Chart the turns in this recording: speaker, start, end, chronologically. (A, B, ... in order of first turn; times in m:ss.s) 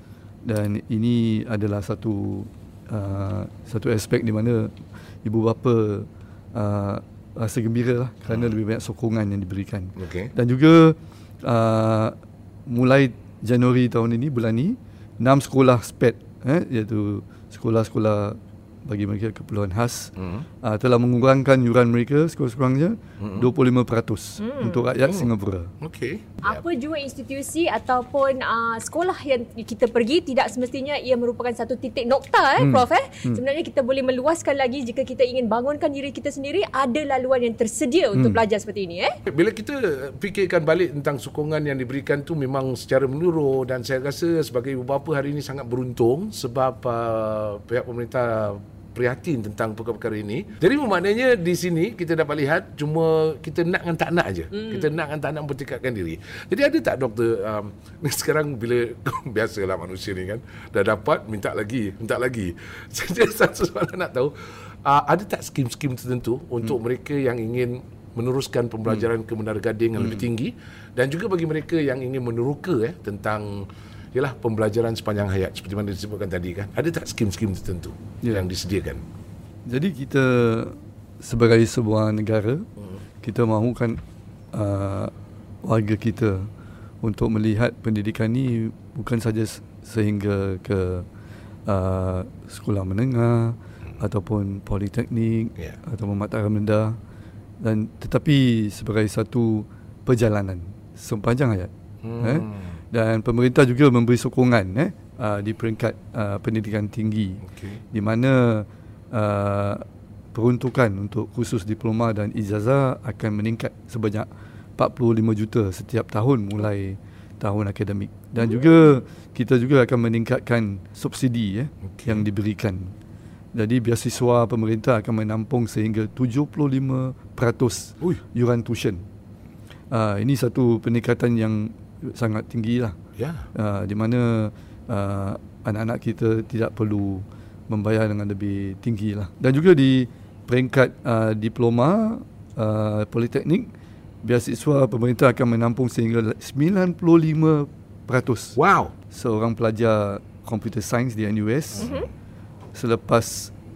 0:00.4-0:25.7 A
0:08.3-0:08.5 B
0:10.0-0:10.3 B
0:20.2-0:20.4 B
0:23.2-0:23.5 B
0:24.4-0:24.9 C
0:25.8-0:26.6 B
0:26.4-0:39.2 C
0:32.6-0:33.4 A
0:38.2-0:38.4 A
0:39.3-1:04.3 B
0:54.5-0:54.9 C
1:04.8-1:19.0 B
1:10.0-1:10.3 A
1:18.2-1:18.5 A
1:19.7-1:22.7 A
1:23.2-1:24.0 A
1:24.5-1:25.1 A
1:25.6-1:26.5 A
1:27.0-1:31.1 A
1:31.7-1:37.0 A
1:37.6-2:03.0 A
1:42.0-1:42.8 B
1:47.5-1:47.8 B
2:01.8-2:02.2 B
2:03.5-2:09.0 A
2:09.9-2:13.0 A
2:13.2-2:13.5 B
2:13.6-2:23.7 A
2:24.2-2:28.6 A
2:28.6-2:28.9 B
2:29.1-2:31.9 A
2:31.8-2:32.1 C
2:32.7-2:33.5 A